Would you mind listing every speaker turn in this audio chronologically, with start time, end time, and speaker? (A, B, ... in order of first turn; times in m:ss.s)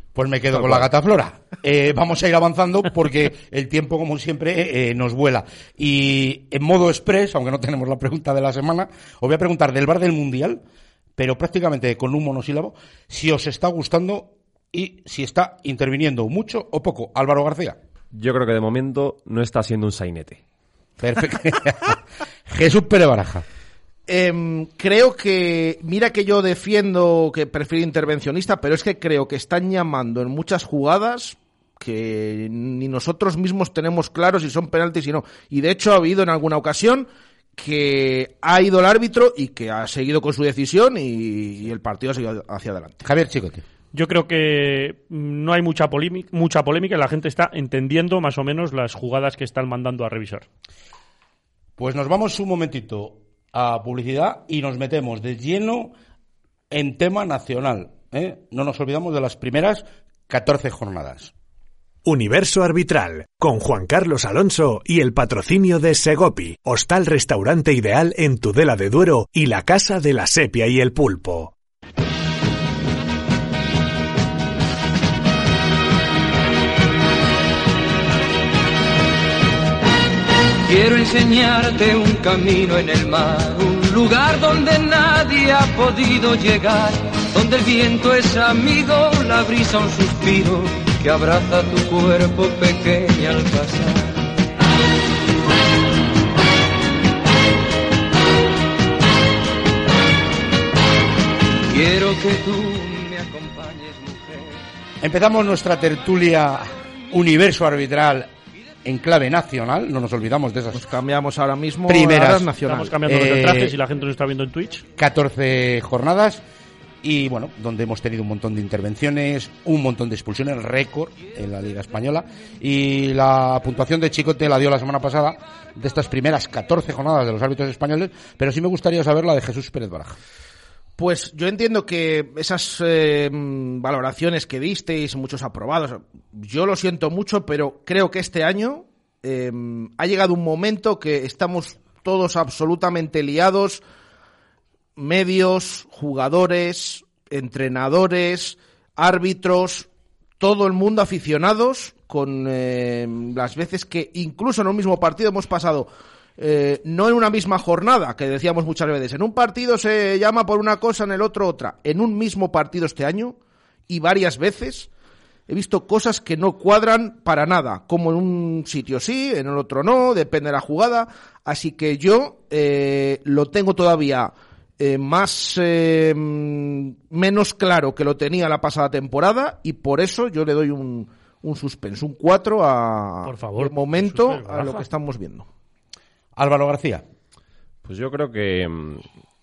0:00.1-0:10.6 A
0:00.5-0:00.8 B
0:11.2-0:17.8 A
0:18.1-0:20.4 B
0:21.0-0:23.4 A
0:24.1-0:43.0 C
0:43.0-0:43.6 A
0:43.9-0:50.4 D
0:51.8-0:55.9 A
0:56.7-1:01.3 A
1:02.0-1:11.5 E
1:20.6-1:34.3 F
1:41.7-1:44.6 F
1:45.0-1:48.3 A
1:48.8-1:50.8 A
1:50.7-1:53.0 C
1:51.9-1:52.5 A
1:52.6-1:54.8 D
1:53.0-1:53.8 A
1:54.9-1:56.4 A
1:57.0-2:10.2 A
2:11.0-2:23.8 C
2:25.0-2:29.9 C
2:30.4-2:43.4 C
2:43.9-2:44.9 C
2:45.5-3:05.5 C
3:03.2-3:04.8 D
3:06.4-3:07.0 A
3:07.8-3:09.0 B